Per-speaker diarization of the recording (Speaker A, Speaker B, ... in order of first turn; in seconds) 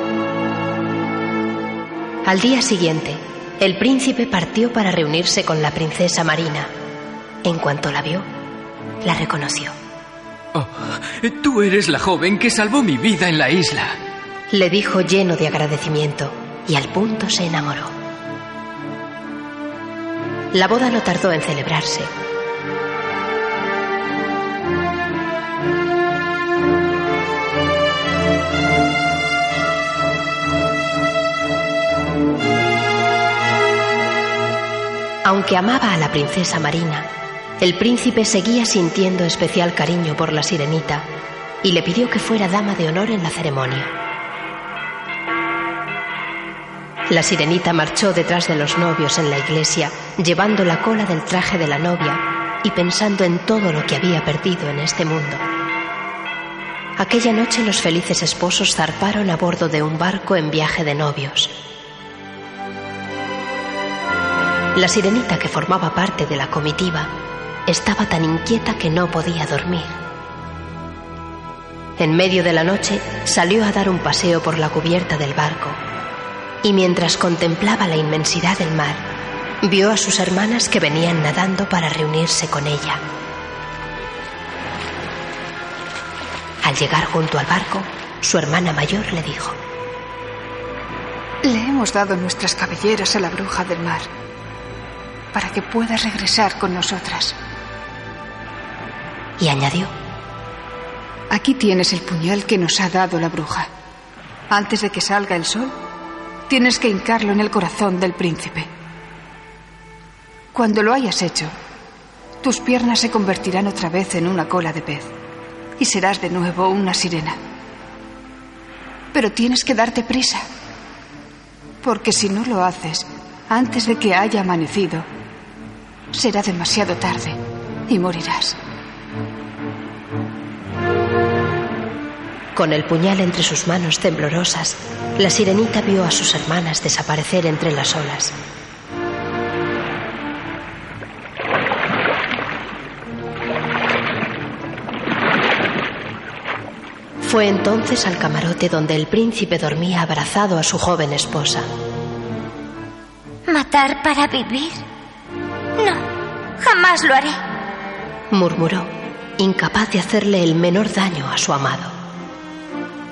Speaker A: 2.2-6.7, 7.4-8.3, 9.0-9.7, 14.5-17.9, 20.5-22.1, 35.2-41.1, 41.6-43.9, 47.1-55.5, 57.0-61.5, 64.8-67.1, 67.7-70.0, 72.0-75.8, 76.6-79.0, 79.6-83.0, 86.6-89.6, 99.4-99.9, 132.6-138.4, 147.2-151.7, 158.3-161.9
Speaker B: 10.6-14.0
Speaker C: 91.4-94.1, 95.3-97.4, 101.3-103.7, 104.5-105.7, 106.5-108.7, 110.5-111.5, 112.4-115.1, 115.8-117.4, 119.1-120.4, 121.8-125.1, 126.1-128.6
Speaker D: 153.5-154.8, 155.8-156.0, 156.6-157.4